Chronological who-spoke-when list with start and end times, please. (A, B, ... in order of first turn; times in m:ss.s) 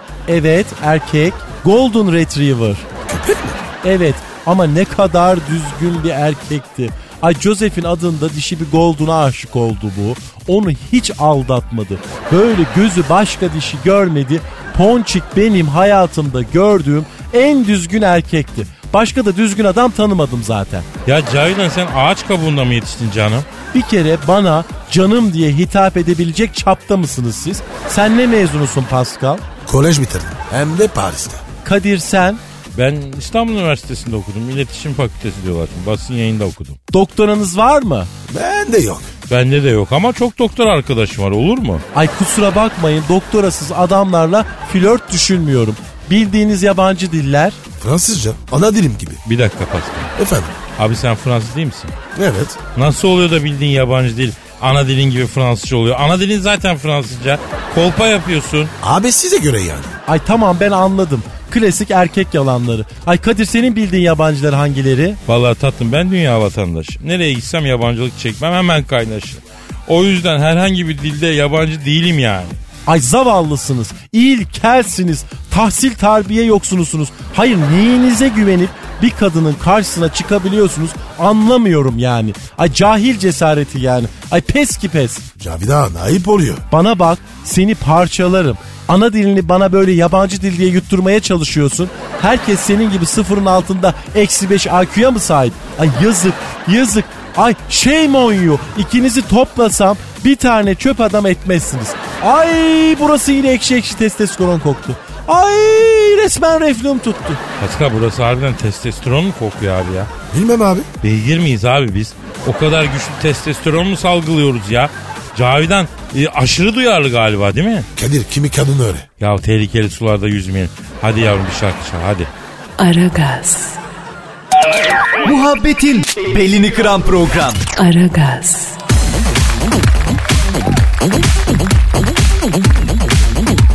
0:00.3-0:02.8 A
0:03.0-0:03.6 B
0:03.8-0:20.9 A
0:21.0-0:23.5 C
0:23.7-0:29.4 A
0:29.6-0:31.4 B
0:31.6-0:32.4 A
0:32.8-0:36.8 C
0:36.9-0:38.1 A
0:38.3-0:39.1 B
0:39.3-0:41.8 C
0:41.9-0:47.6 A
0:47.8-0:49.2 B
0:49.2-0:50.1 C
0:50.2-0:50.5 B
0:50.8-0:52.0 C
0:52.1-0:52.6 B
0:52.7-0:58.7 C
0:58.8-1:00.0 B
1:00.1-1:05.2 A
1:05.3-1:12.6 C
1:12.9-1:25.2 A
1:25.4-1:26.6 B
1:26.7-1:47.4 A
1:47.6-1:50.1 C
1:50.3-1:50.9 B
1:51.0-1:57.9 C
1:58.0-1:59.1 B
1:59.2-2:02.3 C
2:02.8-2:03.8 D
2:05.2-2:07.6 E
2:07.8-2:08.8 D